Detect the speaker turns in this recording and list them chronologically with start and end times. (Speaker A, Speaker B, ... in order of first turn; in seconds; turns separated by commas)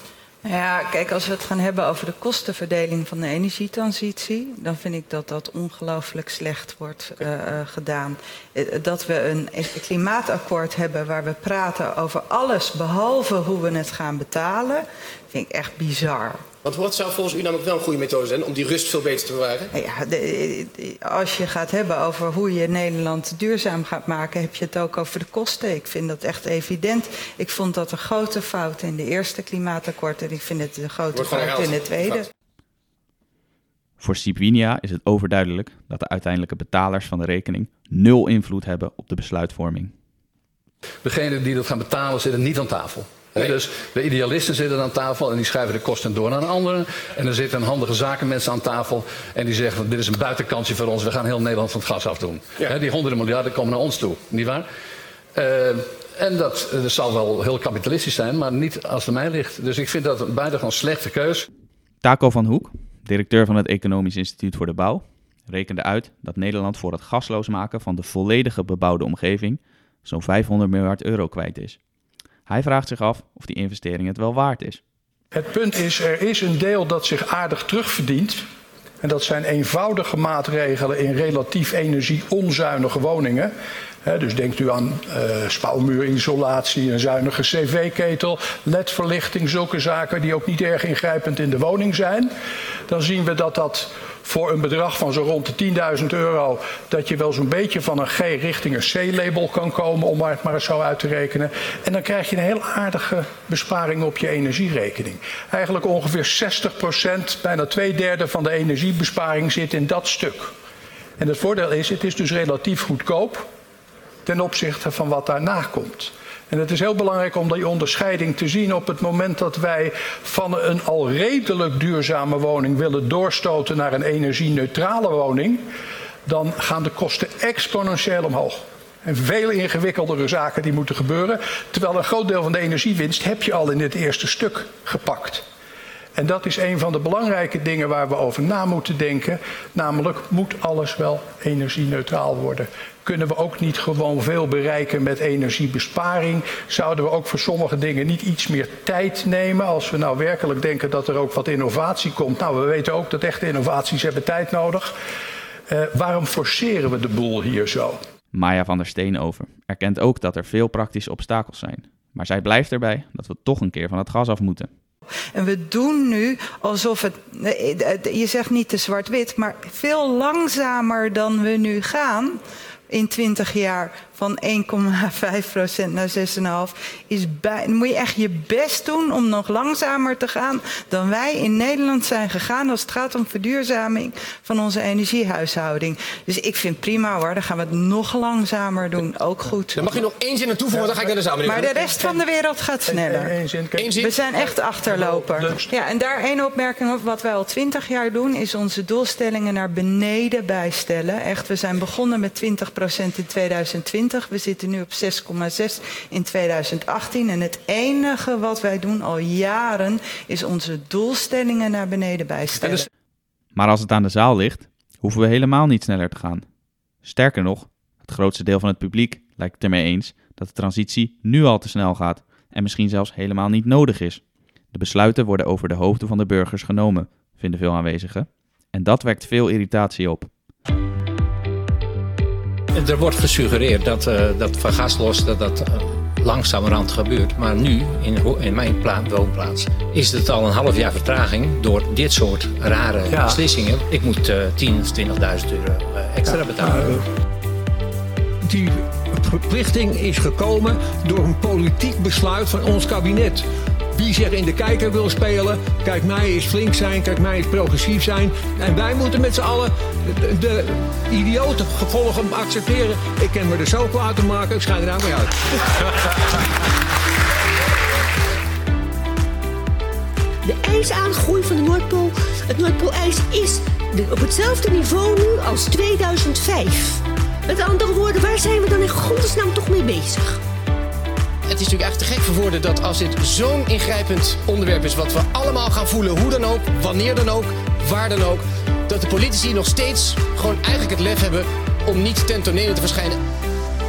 Speaker A: 0.4-16.4, Speaker B: 16.6-19.7, Speaker A: 19.7-32.3, Speaker B: 31.1-32.1, Speaker C: 34.0-39.9, Speaker D: 41.0-54.6, Speaker D: 55.3-61.5, Speaker C: 62.0-71.8, Speaker C: 72.5-74.8, Speaker E: 75.3-78.4, Speaker E: 79.0-83.5, Speaker E: 84.0-92.3, Speaker E: 92.9-110.5, Speaker E: 111.2-113.5, Speaker E: 114.2-125.7, Speaker E: 126.2-135.4, Speaker E: 136.2-154.9, Speaker E: 155.7-158.0, Speaker C: 158.3-164.7, Speaker A: 165.3-189.9, Speaker B: 189.7-191.9, Speaker E: 190.8-191.2, Speaker A: 191.4-193.3, Speaker E: 191.9-192.2, Speaker E: 192.9-194.0, Speaker B: 193.7-194.5, Speaker A: 194.0-212.9, Speaker E: 194.8-195.7, Speaker C: 213.5-216.4, Speaker C: 217.0-224.2, Speaker C: 224.7-230.3, Speaker F: 232.7-247.0, Speaker G: 248.4-265.3, Speaker H: 270.4-280.4, Speaker B: 281.5-293.2